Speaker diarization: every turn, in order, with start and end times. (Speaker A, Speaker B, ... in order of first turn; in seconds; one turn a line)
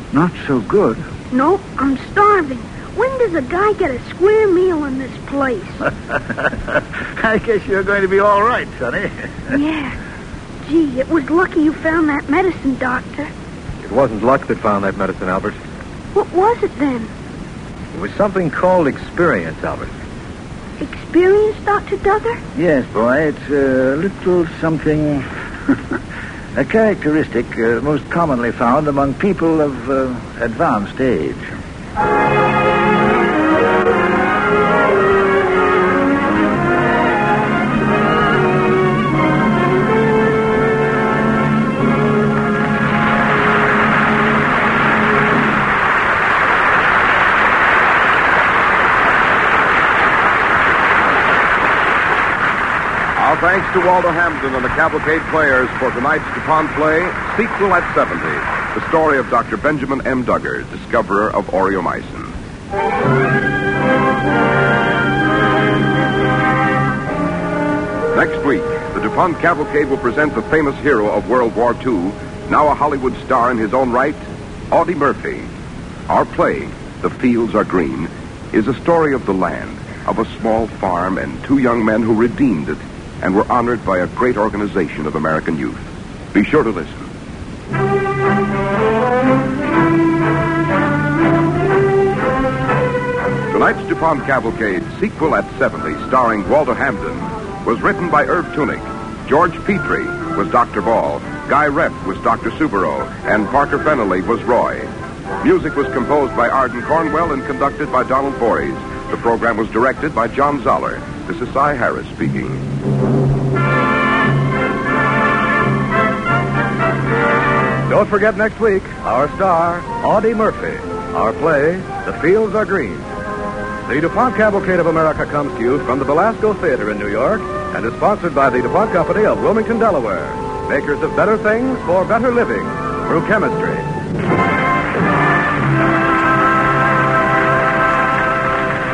Speaker A: 0.1-1.0
Speaker B: 1.3-5.8
Speaker A: 6.1-9.5
Speaker B: 9.5-9.9
Speaker B: 10.6-13.3
Speaker C: 13.8-15.6
Speaker B: 16.1-17.1
Speaker C: 17.9-19.9
Speaker B: 20.8-22.4
Speaker A: 22.6-25.3
Speaker A: 26.6-31.4
Speaker D: 53.2-62.3
Speaker D: 68.1-75.5
Speaker D: 76.1-85.8
Speaker D: 86.3-87.1
Speaker D: 93.5-104.9
Speaker D: 105.4-112.6
Speaker E: 117.9-123.1
Speaker E: 123.9-133.9